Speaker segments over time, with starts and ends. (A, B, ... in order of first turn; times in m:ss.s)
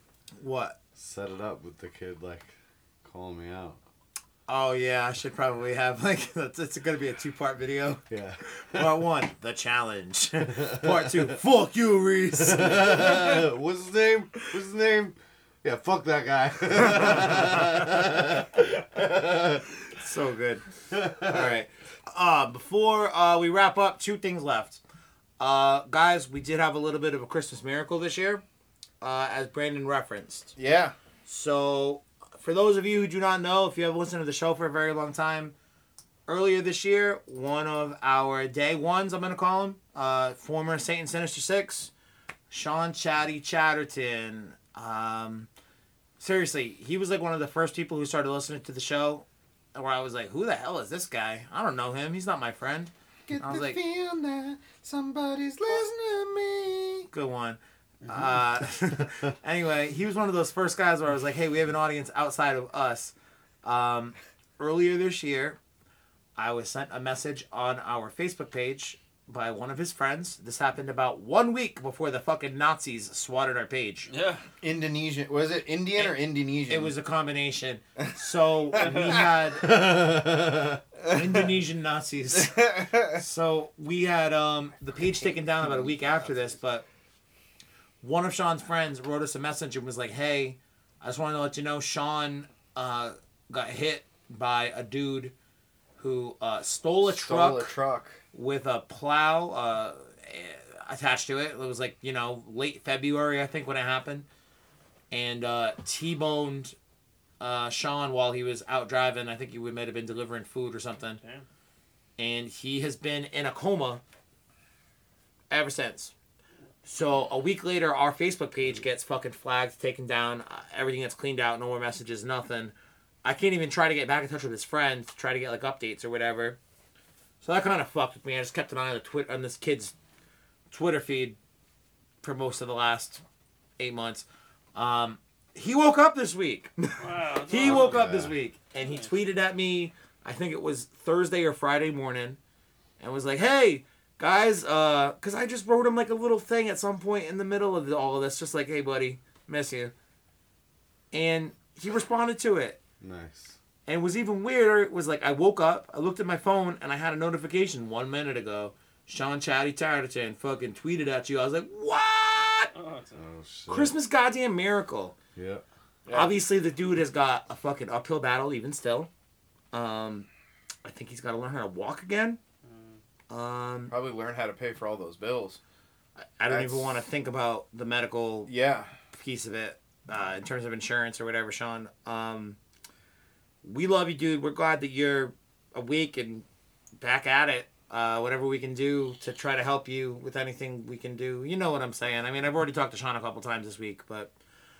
0:00.4-0:00.8 A
0:00.9-0:03.8 B
0:04.5-0:08.0 A
0:08.1-0:09.0 B
0:08.7-0:13.4 A
0:10.5-0:11.4 B
0:12.4-0:19.6 B
0:16.8-0:17.5 A
0:19.9-0:20.6 A
0:20.9-0:21.5 B
0:21.2-0:24.8 A
0:25.4-0:28.4 A
0:29.0-0:30.5 A
0:30.6-0:30.9 C
0:31.2-0:35.5 A
0:36.3-0:41.9 A
0:42.5-0:45.5 A
0:46.2-0:53.8 A
0:53.3-0:57.1 C
0:57.1-1:05.6 A
1:06.4-1:14.1 A
1:14.1-1:14.4 D
1:14.6-1:16.9 C
1:16.0-1:19.8 A
1:18.8-1:19.2 C
1:19.6-1:20.8 B
1:21.0-1:21.4 C
1:21.1-1:26.8 A
1:22.3-1:23.2 C
1:25.6-1:26.0 C
1:28.0-1:35.3 A
1:36.0-1:37.8 A
1:37.0-1:38.2 C
1:38.3-1:44.2 A
1:45.1-1:46.7 A
1:47.4-1:51.2 A
1:51.2-1:51.4 D
1:52.2-1:54.0 A
1:55.5-1:56.1 A
1:56.8-2:06.6 A
2:07.4-2:09.9 A
2:10.7-2:11.4 A
2:12.2-2:13.2 A
2:13.8-2:22.4 A
2:17.0-2:18.1 D
2:17.6-2:18.3 B
2:18.8-2:19.1 D
2:23.0-2:29.9 A
2:31.1-2:32.8 A
2:33.0-2:33.6 B
2:33.9-2:42.7 A
2:42.7-2:43.2 D
2:43.1-2:43.9 B
2:43.7-2:45.2 A
2:45.4-2:45.6 B
2:46.1-2:46.4 C
2:46.1-2:49.1 A
2:49.7-2:50.3 A
2:50.8-2:52.4 A
2:52.6-2:53.0 D
2:53.3-2:53.9 A
2:53.9-2:55.6 C
2:56.2-2:58.5 A
2:56.5-2:56.9 C
2:58.5-2:58.9 C
2:59.1-3:02.6 A
3:03.6-3:06.4 A
3:07.0-3:14.3 A